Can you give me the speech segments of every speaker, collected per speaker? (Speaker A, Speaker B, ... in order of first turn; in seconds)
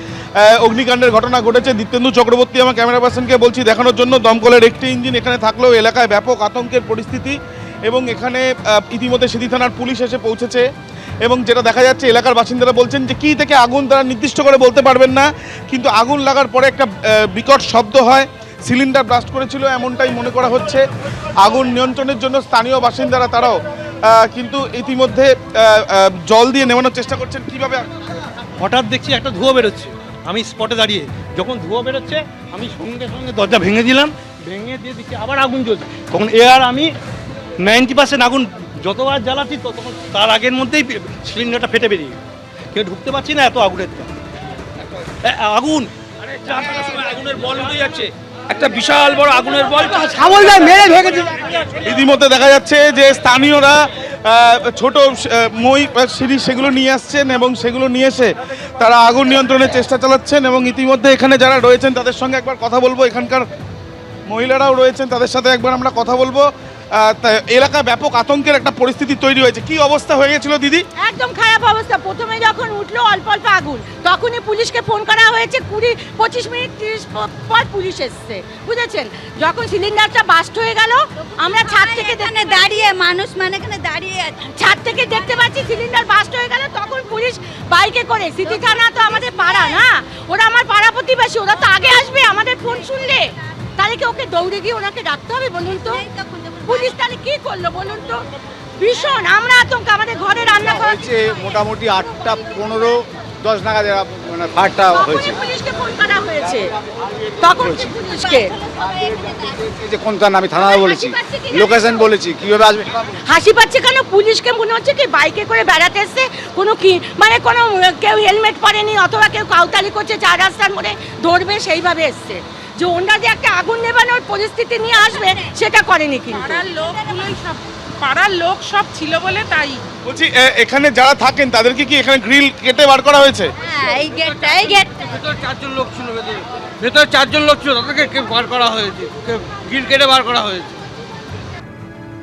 Speaker A: 0.4-10.7, 11.2-20.8, 21.4-27.9, 51.8-63.4, 64.3-66.5, 67.0-70.8, 130.1-133.5
Speaker B: 28.6-36.9, 37.6-42.2, 42.7-44.1, 45.2-48.1, 48.6-51.5
Speaker C: 47.2-48.0, 48.5-50.7, 137.9-138.2, 139.6-140.5
Speaker D: 71.0-82.9, 84.5-96.1, 96.6-98.2, 98.8-101.2, 104.9-106.7, 107.4-108.5, 110.6-112.0, 113.2-126.7
Speaker E: 81.7-84.5, 96.2-96.6, 108.1-109.6, 133.6-135.2
Speaker F: 100.8-105.4, 107.6-108.0, 109.6-112.9
Speaker G: 126.3-129.8